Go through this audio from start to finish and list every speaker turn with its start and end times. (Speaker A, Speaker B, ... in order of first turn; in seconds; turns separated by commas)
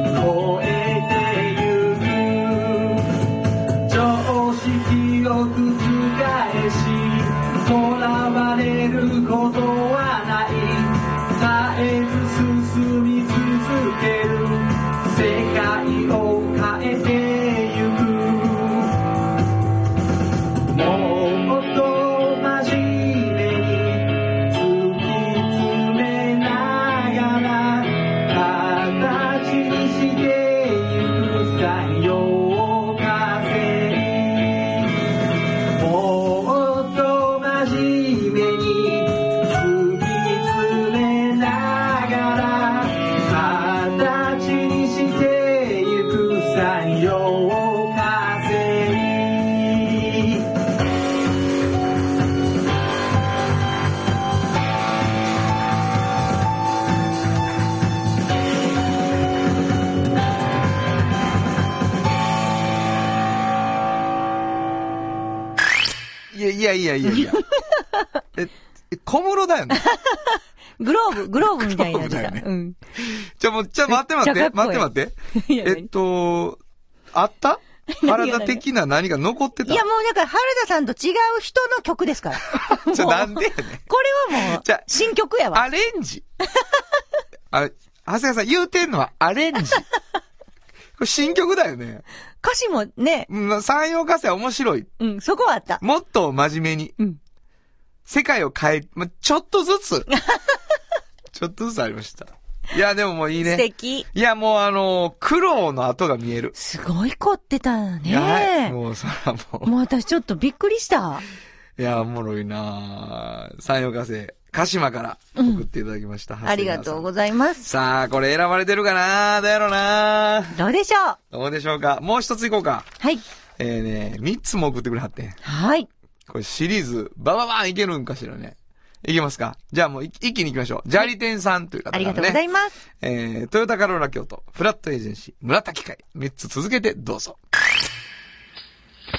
Speaker A: 0.2-2.2, Speaker A: 4.0-10.8, Speaker A: 11.5-14.4, Speaker A: 15.3-18.8, Speaker A: 20.8-24.0, Speaker A: 24.6-26.3, Speaker A: 26.9-27.5, Speaker A: 28.1-34.0, Speaker A: 36.8-49.9, Speaker B: 66.3-67.4, Speaker B: 68.3-69.8, Speaker C: 69.7-72.8, Speaker B: 71.3-72.4, Speaker B: 73.0-76.6, Speaker C: 73.9-75.9, Speaker B: 77.1-79.8, Speaker C: 77.9-78.6, Speaker C: 79.6-85.6, Speaker B: 82.5-84.9, Speaker B: 85.5-86.2, Speaker B: 87.5-89.8, Speaker B: 91.0-92.0, Speaker C: 92.4-93.3, Speaker B: 93.3-94.9, Speaker C: 95.0-95.8, Speaker B: 95.8-97.0, Speaker B: 98.0-100.1, Speaker B: 101.3-106.5, Speaker C: 103.4-104.1, Speaker C: 106.5-108.8, Speaker B: 108.0-109.7, Speaker C: 109.6-111.2, Speaker B: 111.8-117.1, Speaker C: 115.4-115.6, Speaker C: 116.4-117.7, Speaker B: 117.6-120.6, Speaker C: 120.5-121.2, Speaker B: 121.3-122.9, Speaker B: 123.6-125.4, Speaker C: 125.4-125.9, Speaker B: 126.3-132.4, Speaker C: 131.9-132.7, Speaker B: 133.0-137.4